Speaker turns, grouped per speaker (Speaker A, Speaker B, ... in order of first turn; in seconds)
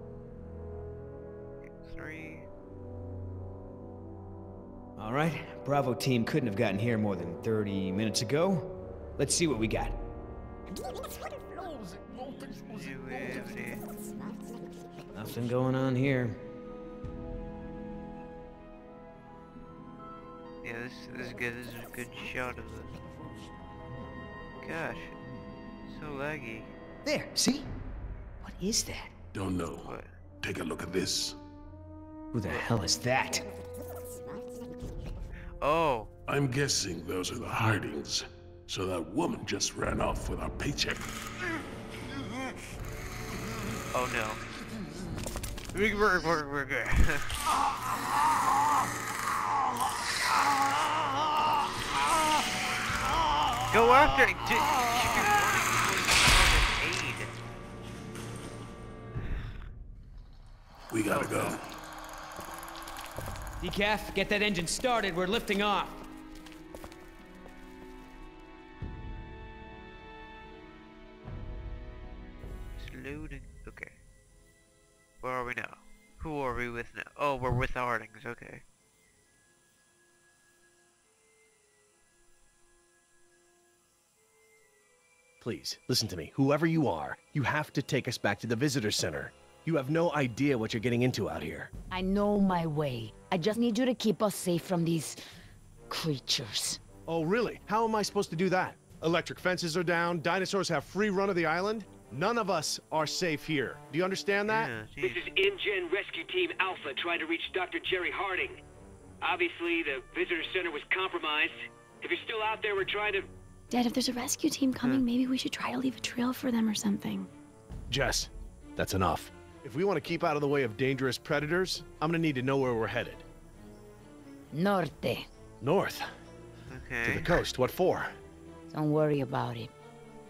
Speaker A: 1.6-2.5, 12.5-13.8, 20.6-23.0, 24.6-25.2, 25.9-26.7, 29.8-30.1, 35.6-36.1, 43.9-44.4, 45.7-47.4, 53.7-57.3, 61.1-61.6, 72.8-73.9, 75.2-78.6, 104.5-105.3, 126.7-127.4
Speaker B: 5.0-10.0, 15.1-16.4, 27.0-27.7, 28.4-29.1, 32.3-33.4, 63.6-66.0
Speaker C: 29.3-31.4, 36.3-41.1, 60.9-61.7
Speaker D: 85.4-91.7, 97.1-104.7, 117.9-123.2, 125.6-126.0, 127.0-128.1
Speaker E: 91.9-95.2, 95.9-96.8, 124.5-125.3, 128.7-129.7
Speaker F: 105.0-108.6, 109.2-113.3
Speaker G: 113.7-117.3